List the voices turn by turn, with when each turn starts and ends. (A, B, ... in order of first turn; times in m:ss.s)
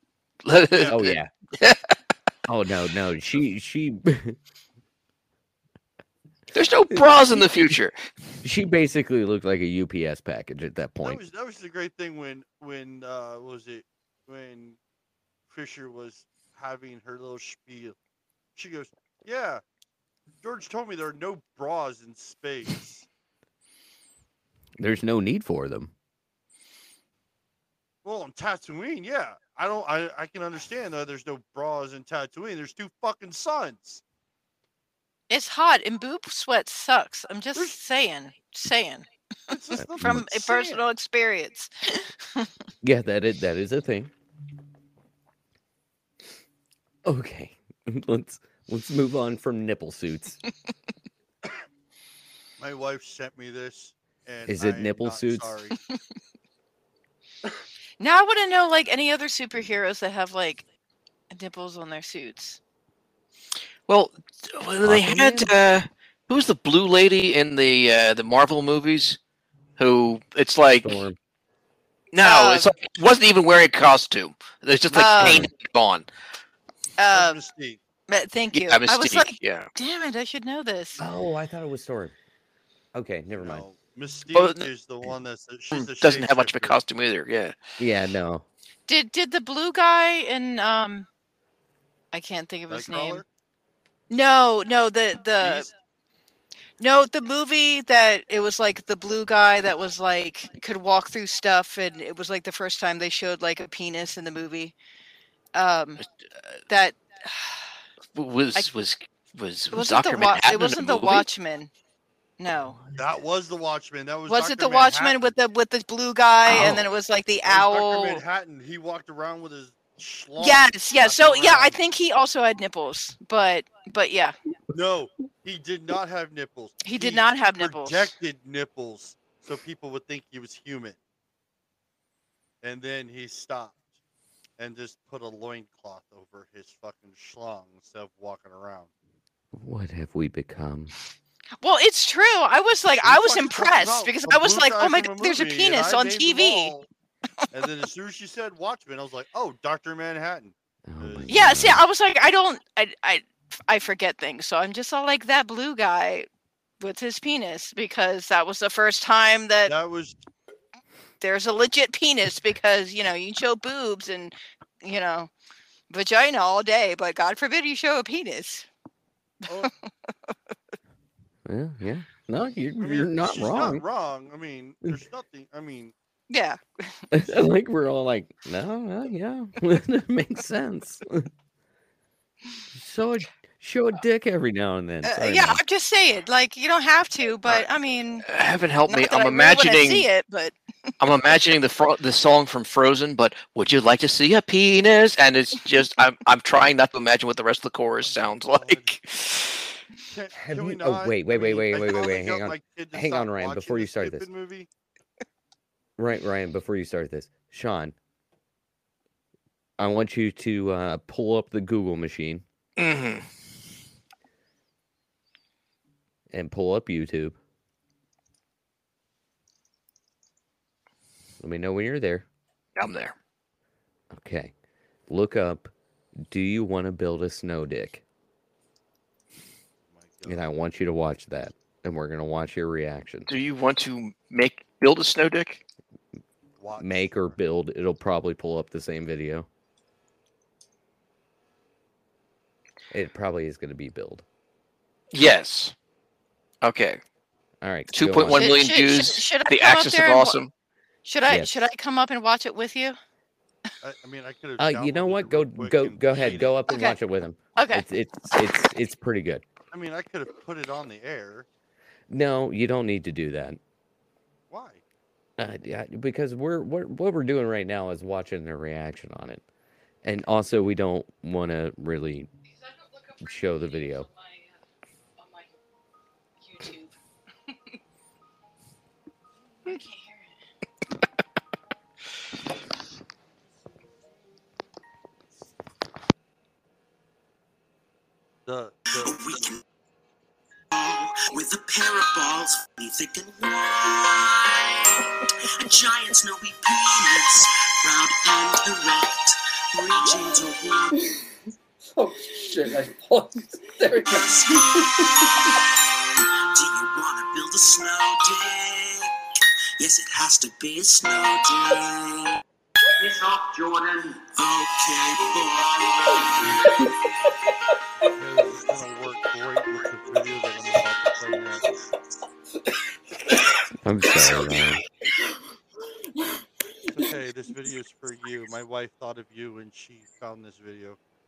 0:00.4-0:01.9 A
0:00.7-0:01.0 B
0:00.9-0:01.3 C
0:02.4-0:04.4 C
0:06.5-0:08.0 A
0:07.0-0:07.4 C
0:08.4-0:11.2 C
0:11.0-0:14.8 B
0:15.5-0:18.0 B
0:18.6-0:19.6 B
0:20.4-0:23.1 B
0:24.8-0:25.9 C
0:28.0-0:34.0 B
0:35.3-0:42.5 D
0:39.5-0:40.8 B
0:39.8-0:40.2 C
0:42.8-0:44.1 C
0:47.0-0:50.4 C
0:52.6-0:55.8 B
0:54.5-0:55.5 C
0:58.0-1:00.6 D
1:01.3-1:02.6 D
1:03.9-1:09.2 A
1:04.8-1:05.5 C
1:09.8-1:11.0 A
1:10.8-1:11.2 C
1:12.1-1:16.0 A
1:12.2-1:12.7 D
1:14.9-1:15.5 D
1:17.0-1:17.4 D
1:17.1-1:17.8 B
1:18.1-1:21.0 D
1:18.5-1:19.7 A
1:21.0-1:22.1 C
1:22.9-1:23.6 C
1:23.4-1:26.8 B
1:24.3-1:24.7 A
1:25.7-1:27.5 A
1:27.8-1:28.4 C
1:28.9-1:31.1 D
1:32.1-1:33.2 D
1:32.7-1:33.3 B
1:34.1-1:35.7 D
1:35.4-1:35.7 B
1:36.8-1:44.7 D
1:45.5-1:46.0 D
1:46.7-1:47.6 D
1:48.1-1:51.2 A
1:49.7-1:51.7 D
1:52.4-1:52.8 D
1:53.0-1:55.3 B
1:54.3-1:58.2 D
1:56.5-1:56.8 A
1:57.4-2:01.8 B
2:00.4-2:04.3 D
2:04.7-2:11.0 B
2:06.8-2:08.0 D
2:12.6-2:13.8 B
2:14.6-2:18.9 B
2:19.5-2:20.9 C
2:21.6-2:26.7 D
2:23.0-2:26.9 B
2:27.5-2:31.6 B
2:30.8-2:31.8 C
2:31.3-2:36.3 D
2:36.8-2:39.7 D
2:39.6-2:40.2 B
2:41.2-2:45.3 D
2:45.9-2:48.7 D
2:49.4-2:49.7 B
2:51.4-2:53.8 C
2:52.8-2:55.9 B
2:56.3-2:56.9 D
2:57.1-3:01.3 C
3:02.7-3:05.6 C
3:05.0-3:08.2 D
3:08.3-3:10.1 A
3:08.9-3:10.5 D
3:11.0-3:19.7 A
3:18.0-3:19.0 B
3:20.0-3:24.7 B
3:20.3-3:24.3 C
3:26.0-3:27.9 C
3:29.8-3:32.4 C
3:32.8-3:33.2 A
3:36.3-3:37.4 C
3:41.4-3:42.2 C
3:42.8-3:43.1 A
3:44.1-3:44.5 C
3:45.1-3:45.7 C
3:46.3-3:48.0 C
3:49.9-3:50.4 B
3:50.2-3:53.3 C
3:53.3-3:55.6 A
3:56.6-3:57.3 B
3:56.8-3:59.5 C
4:02.9-4:04.2 C
4:05.1-4:05.7 A
4:06.6-4:07.0 A
4:07.6-4:08.6 C
4:07.9-4:10.5 A
4:08.3-4:10.4 D
4:11.0-4:13.0 D
4:11.2-4:11.6 C
4:13.8-4:16.5 B
4:14.6-4:19.4 C
4:16.7-4:17.0 D
4:17.6-4:17.8 D
4:19.7-4:21.5 B
4:22.1-4:23.6 C
4:24.5-4:24.8 B
4:25.4-4:29.4 C
4:30.0-4:32.3 C
4:33.2-4:34.1 C
4:36.5-4:36.8 D
4:39.6-4:40.3 D
4:48.4-4:49.2 B
4:48.9-4:49.6 E
4:50.7-5:01.0 E
5:02.0-5:03.2 F
5:03.8-5:04.4 F
5:04.1-5:05.6 E
5:06.2-5:09.1 E
5:09.8-5:12.4 E
5:13.0-5:16.9 E
5:18.2-5:21.6 B
5:23.8-5:24.8 C
5:24.0-5:24.8 F
5:26.9-5:31.0 B